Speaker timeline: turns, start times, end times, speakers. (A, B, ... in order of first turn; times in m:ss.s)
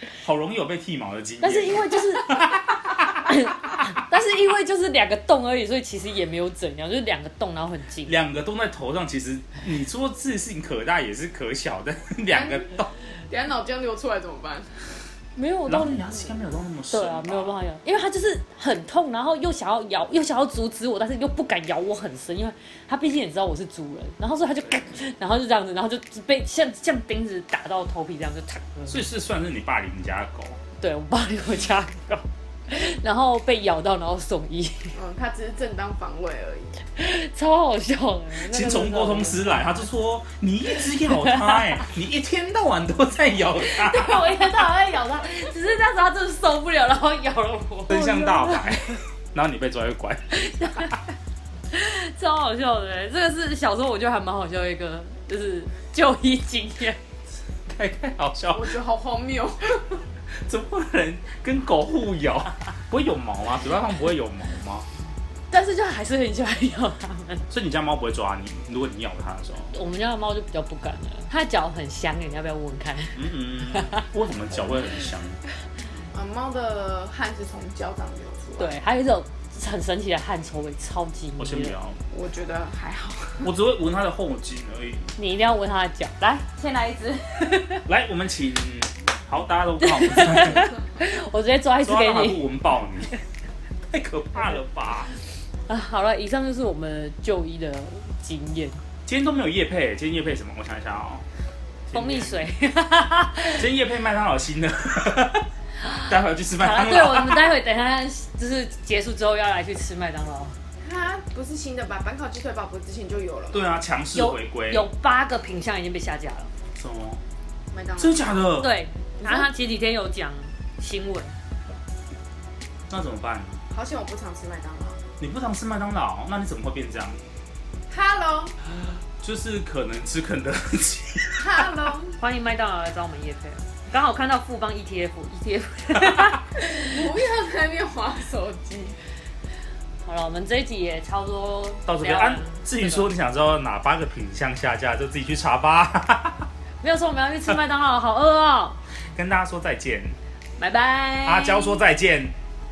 0:00.2-0:03.8 A
0:01.4-0:08.1 B
0:08.0-0:12.9 A
0:12.3-0:12.7 C
0:13.3-0:15.0 C
0:15.4-0:29.0 B
0:15.7-0:17.6 A
0:28.9-0:30.6 A
0:30.8-0:35.0 B
0:34.9-0:36.8 C
0:37.0-0:39.7 B
0:38.5-0:44.4 A
0:41.0-0:41.8 B
0:43.6-0:49.0 B
0:47.9-0:50.3 A
0:50.3-0:51.0 B
0:51.7-0:57.0 B
0:57.7-0:58.7 A
0:58.5-1:00.0 C
1:00.4-1:04.9 A
1:05.5-1:07.5 B
1:07.5-1:09.7 A
1:09.7-1:14.1 B
1:13.2-1:15.4 A
1:16.1-1:18.8 C
1:18.6-1:21.8 B
1:21.4-1:22.0 A
1:22.1-1:23.5 C
1:23.4-1:25.1 A
1:25.2-1:27.8 B
1:27.9-1:30.8 A
1:29.8-1:32.6 B
1:31.8-1:33.1 A
1:33.9-1:35.1 A
1:35.7-1:38.8 B
1:39.1-1:41.2 A
1:41.9-1:42.4 A
1:41.9-1:43.6 B
1:43.6-1:45.5 A
1:45.8-1:50.6 B
1:46.0-1:47.4 A
1:50.8-1:53.7 C
1:53.5-1:54.8 A
1:54.1-1:56.5 B
1:56.8-1:57.2 A
1:57.7-1:58.5 C
1:58.0-1:58.7 A
1:58.6-2:01.3 B
1:59.2-1:59.5 C
2:02.9-2:03.6 A
2:03.7-2:05.0 C
2:05.2-2:07.2 A
2:07.9-2:08.6 C
2:09.2-2:11.4 A
2:11.4-2:12.2 C
2:12.2-2:17.0 B
2:16.9-2:19.0 C
2:20.0-2:23.1 B
2:21.9-2:26.5 A
2:26.8-2:28.8 B
2:29.2-2:30.2 A
2:30.6-2:31.8 B
2:31.2-2:32.3 A